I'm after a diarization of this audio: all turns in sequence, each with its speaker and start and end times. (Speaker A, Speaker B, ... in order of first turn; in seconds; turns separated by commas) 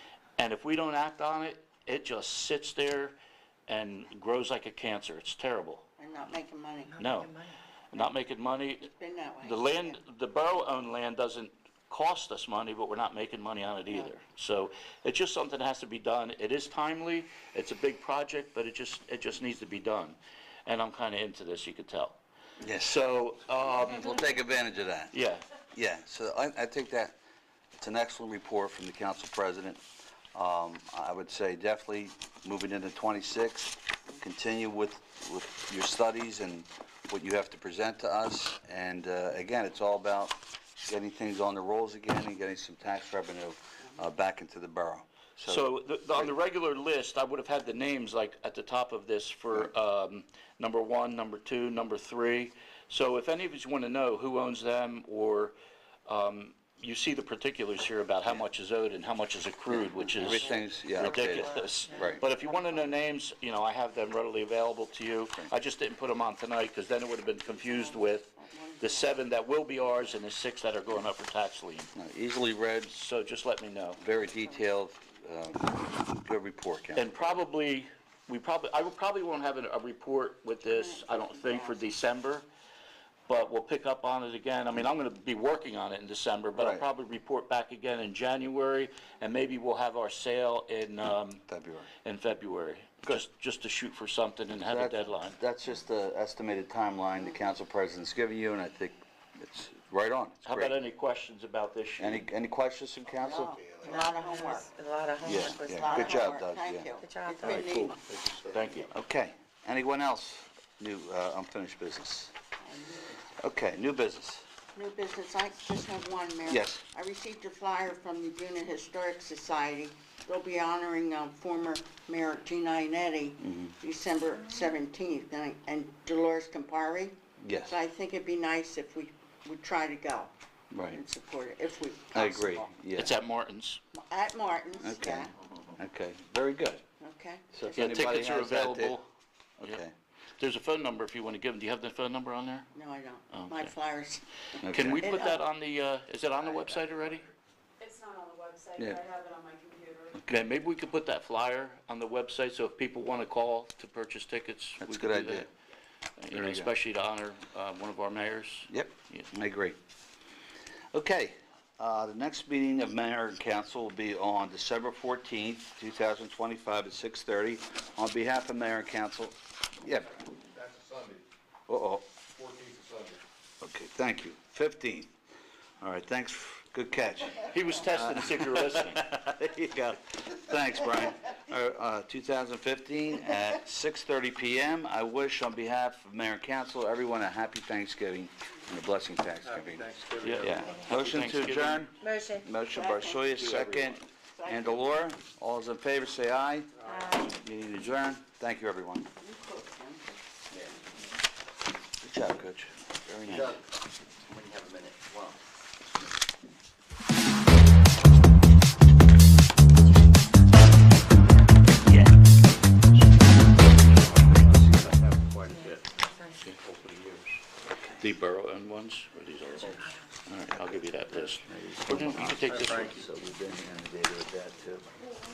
Speaker A: 0.4-3.2, Speaker A: 3.7-5.8, Speaker B: 6.0-7.0, Speaker C: 6.9-7.6, Speaker A: 7.0-7.3, Speaker A: 7.9-8.9, Speaker B: 8.9-10.0, Speaker A: 9.4-22.2, Speaker D: 22.6-23.1, Speaker A: 22.8-24.2, Speaker D: 23.7-25.1, Speaker A: 25.1-25.4, Speaker D: 25.7-27.2, Speaker D: 27.8-29.8, Speaker D: 30.3-46.3, Speaker A: 45.4-55.5, Speaker A: 56.1-68.3, Speaker D: 59.7-62.2, Speaker C: 60.9-62.1, Speaker B: 62.0-62.9, Speaker B: 67.5-69.2, Speaker A: 68.8-71.9, Speaker D: 72.0-72.9, Speaker A: 72.9-74.0, Speaker D: 74.0-77.4, Speaker B: 74.3-74.5, Speaker A: 77.0-82.5, Speaker B: 80.7-82.0, Speaker A: 83.3-91.4, Speaker D: 86.6-86.8, Speaker D: 91.5-91.9, Speaker A: 92.0-95.4, Speaker D: 94.7-100.7, Speaker A: 100.5-102.2, Speaker D: 102.0-103.5, Speaker B: 103.2-104.7, Speaker E: 103.5-104.0, Speaker C: 103.8-106.3, Speaker D: 105.2-106.9, Speaker B: 105.6-108.0, Speaker C: 107.0-107.7, Speaker A: 107.4-108.9, Speaker E: 108.0-108.6, Speaker D: 108.9-112.3, Speaker B: 112.6-113.1, Speaker D: 113.4-114.5, Speaker B: 114.8-130.3, Speaker D: 116.5-116.8, Speaker D: 123.4-123.7, Speaker D: 127.4-127.8, Speaker D: 130.7-131.0, Speaker B: 130.9-132.7, Speaker D: 132.1-133.1, Speaker A: 132.9-133.8, Speaker B: 133.9-135.3, Speaker D: 134.8-136.8, Speaker B: 137.0-138.0, Speaker D: 137.5-139.0, Speaker A: 137.8-139.1, Speaker D: 139.6-139.9, Speaker A: 140.4-142.7, Speaker B: 142.7-145.4, Speaker A: 143.3-143.7, Speaker D: 144.6-145.1, Speaker A: 144.6-147.3, Speaker F: 147.9-150.1, Speaker A: 150.3-155.5, Speaker D: 154.8-155.5, Speaker A: 156.2-159.3, Speaker D: 156.3-156.7, Speaker D: 158.7-159.8, Speaker D: 160.9-170.2, Speaker E: 170.5-171.3, Speaker D: 171.7-172.1, Speaker E: 172.3-173.2, Speaker D: 173.6-175.1, Speaker D: 175.8-199.1, Speaker A: 177.4-179.1, Speaker E: 189.4-191.0, Speaker A: 190.2-191.9, Speaker C: 192.0-192.5, Speaker B: 192.7-193.4, Speaker E: 193.4-194.0, Speaker B: 194.2-195.0, Speaker E: 196.8-197.2, Speaker C: 196.8-197.3, Speaker B: 199.2-200.2, Speaker D: 202.0-203.6, Speaker E: 203.3-203.6, Speaker E: 204.2-205.4, Speaker A: 211.9-212.1, Speaker A: 212.9-215.8, Speaker E: 214.3-215.6, Speaker C: 215.5-216.4, Speaker A: 216.4-217.3, Speaker D: 217.7-218.0, Speaker A: 218.0-223.0, Speaker C: 219.5-220.1, Speaker D: 220.5-224.8